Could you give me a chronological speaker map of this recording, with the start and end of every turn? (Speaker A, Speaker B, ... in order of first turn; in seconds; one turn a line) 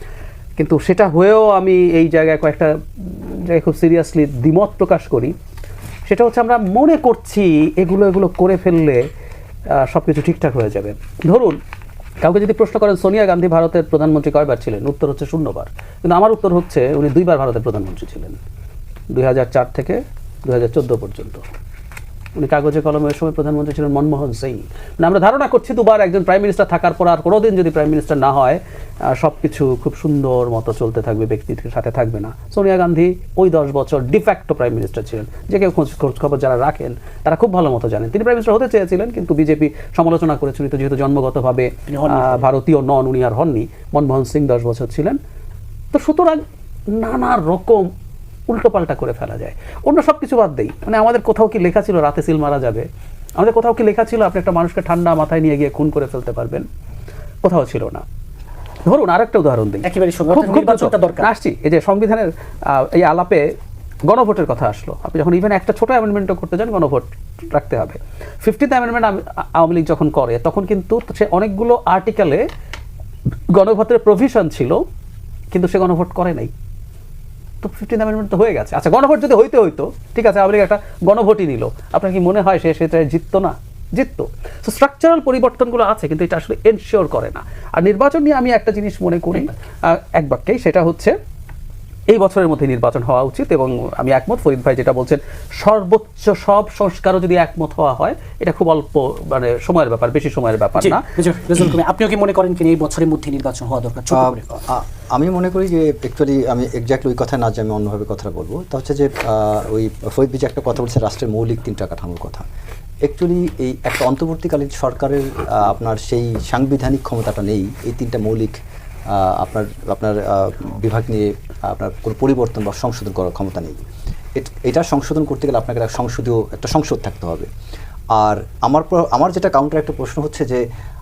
Speaker A: 0.6-5.3
Speaker A: 6.1-9.0
Speaker A: 9.8-11.6
Speaker A: 12.2-18.4
Speaker A: 19.1-21.4
Speaker A: 22.4-45.2
Speaker B: 41.9-42.5
Speaker A: 45.9-47.9
Speaker A: 48.5-56.7
Speaker A: 57.4-58.0
Speaker A: 58.9-63.5
Speaker B: 59.8-61.3
Speaker A: 64.1-72.4
Speaker A: 73.5-74.8
Speaker A: 75.5-76.5
Speaker A: 77.6-91.2
Speaker A: 92.1-101.0
Speaker B: 100.8-104.5
Speaker C: 104.1-112.5
Speaker C: 113.1-118.6
Speaker C: 119.1-123.8
Speaker C: 124.4-127.5
Speaker C: 128.2-130.6